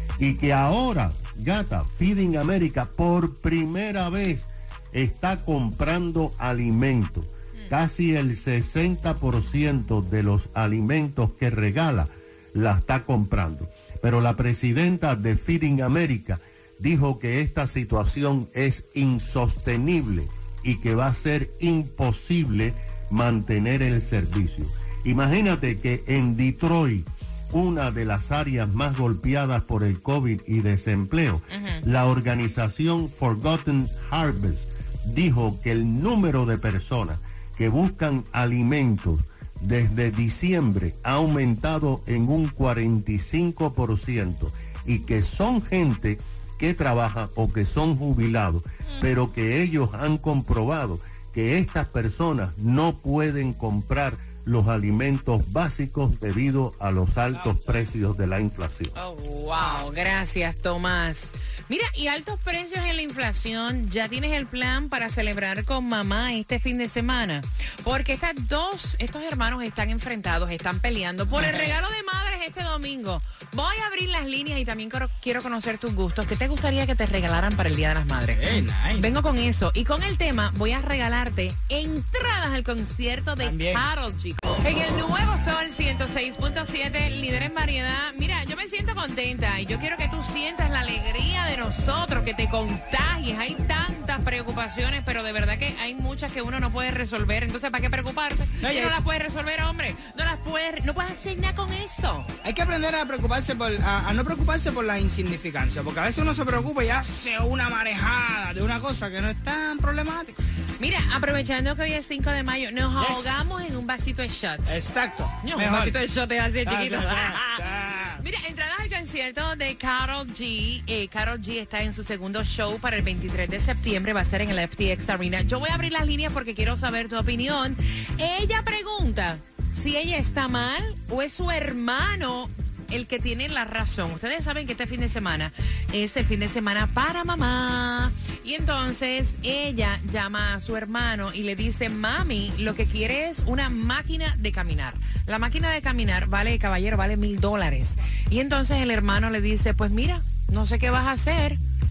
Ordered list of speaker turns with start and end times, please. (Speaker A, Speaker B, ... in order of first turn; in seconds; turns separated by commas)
Speaker A: 0.2-58.9, Speaker B: 31.5-31.8, Speaker C: 57.3-57.9, Speaker B: 59.0-102.3, Speaker C: 71.3-71.8, Speaker C: 78.3-79.1, Speaker C: 83.4-83.9, Speaker C: 98.6-99.0, Speaker C: 102.4-110.4, Speaker B: 110.8-114.8, Speaker C: 113.0-113.5, Speaker C: 114.7-116.0, Speaker B: 115.4-117.6, Speaker C: 116.7-118.2, Speaker B: 118.2-151.6